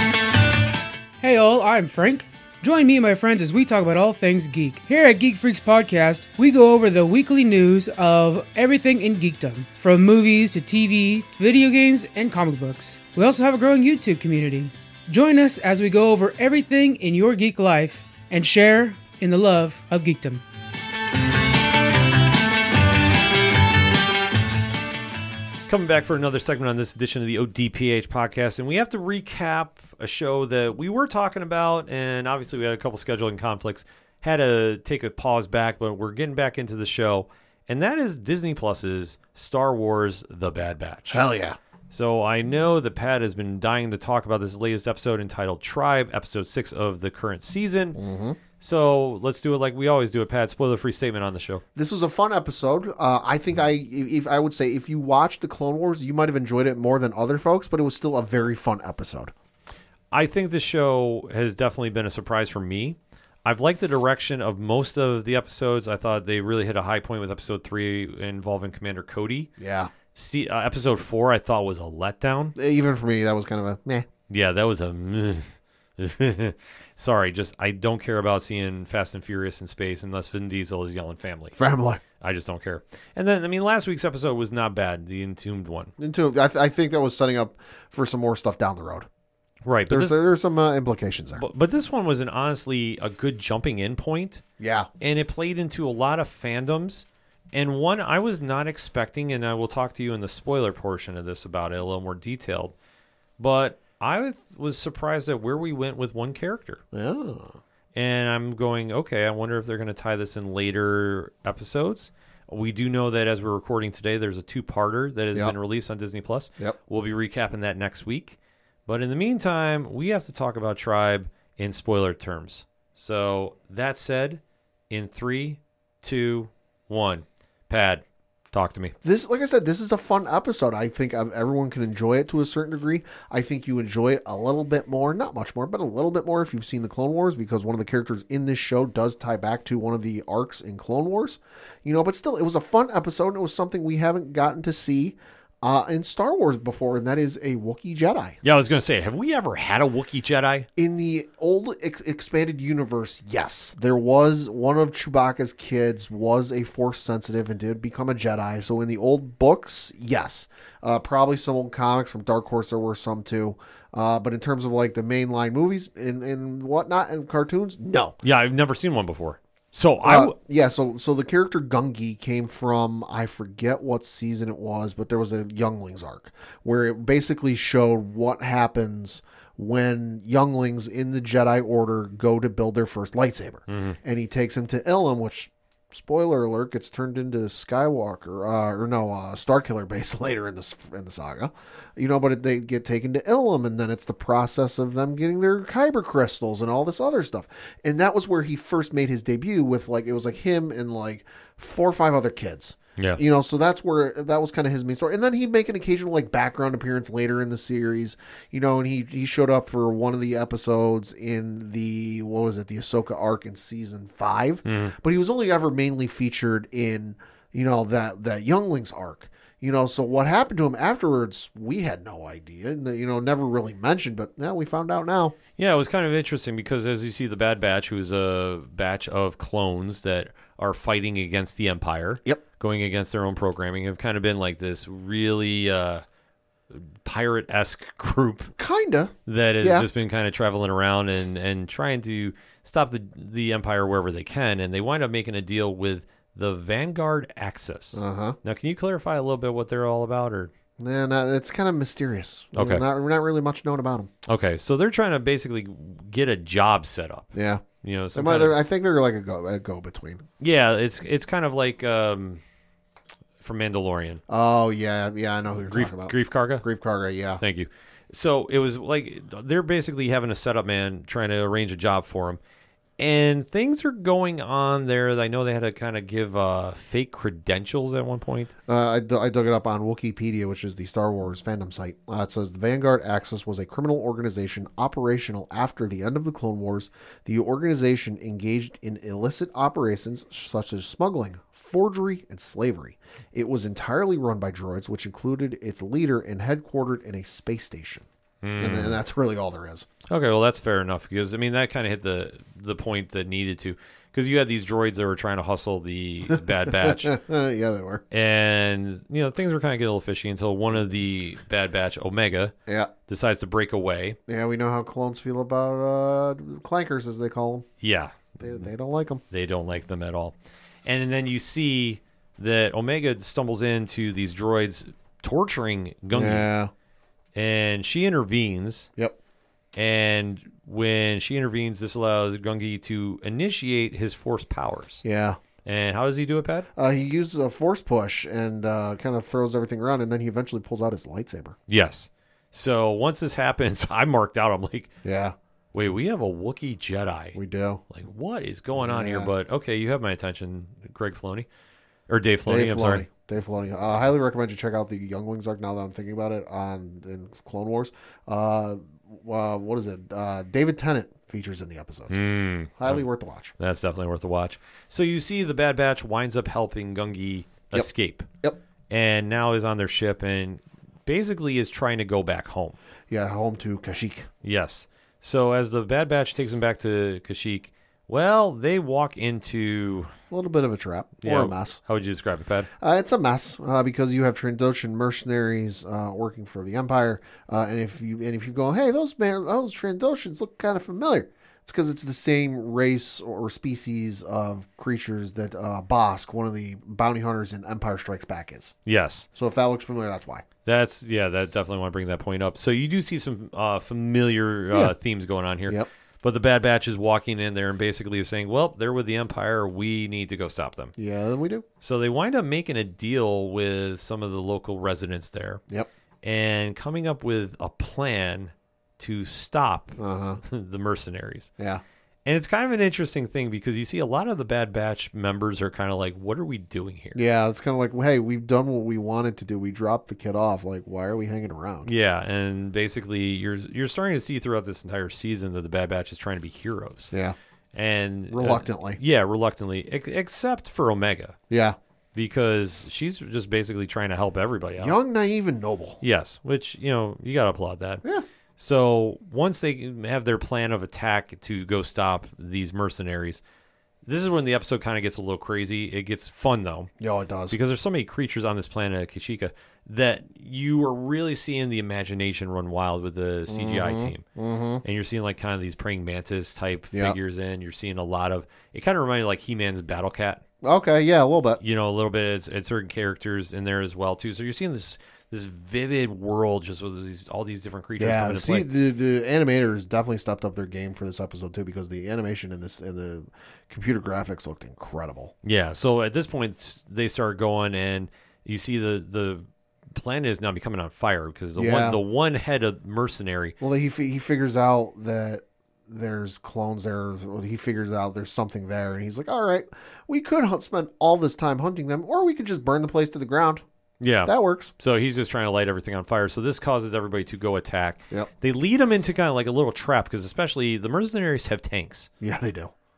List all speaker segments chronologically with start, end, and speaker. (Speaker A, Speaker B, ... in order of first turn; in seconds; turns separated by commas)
Speaker A: 1.2-20.4, Speaker B: 25.7-41.2, Speaker C: 41.1-41.6, Speaker B: 41.9-48.0, Speaker C: 48.0-48.4, Speaker B: 48.6-51.6, Speaker C: 51.8-59.3, Speaker B: 60.1-69.5, Speaker C: 69.6-69.9, Speaker B: 70.1-72.5, Speaker C: 72.6-74.1, Speaker B: 74.3-81.6, Speaker C: 81.6-82.0, Speaker B: 82.2-85.9, Speaker C: 86.0-89.1, Speaker B: 89.7-90.2, Speaker C: 89.9-91.4, Speaker B: 91.4-94.4, Speaker C: 94.6-94.9, Speaker B: 95.0-102.7, Speaker B: 103.4-106.8, Speaker C: 106.9-107.6, Speaker B: 108.0-128.9, Speaker C: 129.0-148.4, Speaker B: 148.4-150.7, Speaker C: 150.8-168.2, Speaker B: 168.2-170.4, Speaker C: 170.0-225.4, Speaker B: 183.7-184.0, Speaker B: 214.7-214.9, Speaker B: 225.6-236.0, Speaker B: 236.7-238.5, Speaker C: 238.6-239.9, Speaker B: 239.3-250.5, Speaker C: 247.9-248.4, Speaker C: 250.8-254.1, Speaker B: 252.6-252.8, Speaker B: 254.3-258.7, Speaker C: 257.3-260.2, Speaker B: 260.4-262.4, Speaker B: 263.4-264.2, Speaker C: 264.3-267.4, Speaker B: 265.6-266.6, Speaker B: 267.4-272.4, Speaker B: 273.0-278.5, Speaker C: 278.7-298.1, Speaker B: 298.4-299.0, Speaker C: 298.6-299.9, Speaker B: 300.1-307.1, Speaker C: 306.3-308.0, Speaker B: 308.1-312.6, Speaker C: 312.7-312.9, Speaker B: 313.1-314.2, Speaker C: 314.3-317.7, Speaker B: 317.8-318.7, Speaker C: 318.4-319.2, Speaker B: 319.3-326.5, Speaker C: 326.1-326.7, Speaker B: 327.4-328.9, Speaker B: 329.8-335.0, Speaker C: 335.0-335.4, Speaker B: 335.6-336.7, Speaker C: 336.8-341.6, Speaker B: 341.7-344.9, Speaker C: 345.0-345.4, Speaker B: 345.7-347.4, Speaker C: 347.4-347.8, Speaker B: 347.9-351.5, Speaker C: 348.8-349.3, Speaker B: 352.1-353.1, Speaker C: 352.5-362.2, Speaker B: 362.1-363.0, Speaker C: 362.8-363.5, Speaker B: 363.6-368.3, Speaker B: 368.9-372.8, Speaker C: 373.1-374.3, Speaker B: 374.4-380.1, Speaker C: 380.3-381.8, Speaker B: 381.2-382.7, Speaker C: 382.8-398.8, Speaker B: 398.9-399.3, Speaker C: 399.4-400.4, Speaker B: 400.6-410.9, Speaker C: 411.0-411.6, Speaker B: 411.8-415.6, Speaker B: 416.2-421.5, Speaker C: 420.0-420.4, Speaker B: 422.2-427.2, Speaker C: 427.1-431.9, Speaker B: 431.9-437.1, Speaker B: 437.7-441.4, Speaker C: 438.3-439.0, Speaker C: 441.5-441.8, Speaker B: 442.1-445.0, Speaker C: 444.8-446.0, Speaker B: 446.0-448.0, Speaker B: 448.6-453.4, Speaker B: 454.1-456.9, Speaker C: 457.0-457.6, Speaker B: 457.5-464.2, Speaker C: 463.5-464.8, Speaker B: 464.8-470.4, Speaker C: 466.9-467.2, Speaker C: 470.6-471.6, Speaker B: 471.6-478.7, Speaker C: 478.0-485.3, Speaker B: 485.4-493.6, Speaker C: 491.6-492.0, Speaker C: 493.6-503.6, Speaker B: 504.0-512.1, Speaker C: 504.3-504.7, Speaker C: 512.2-512.7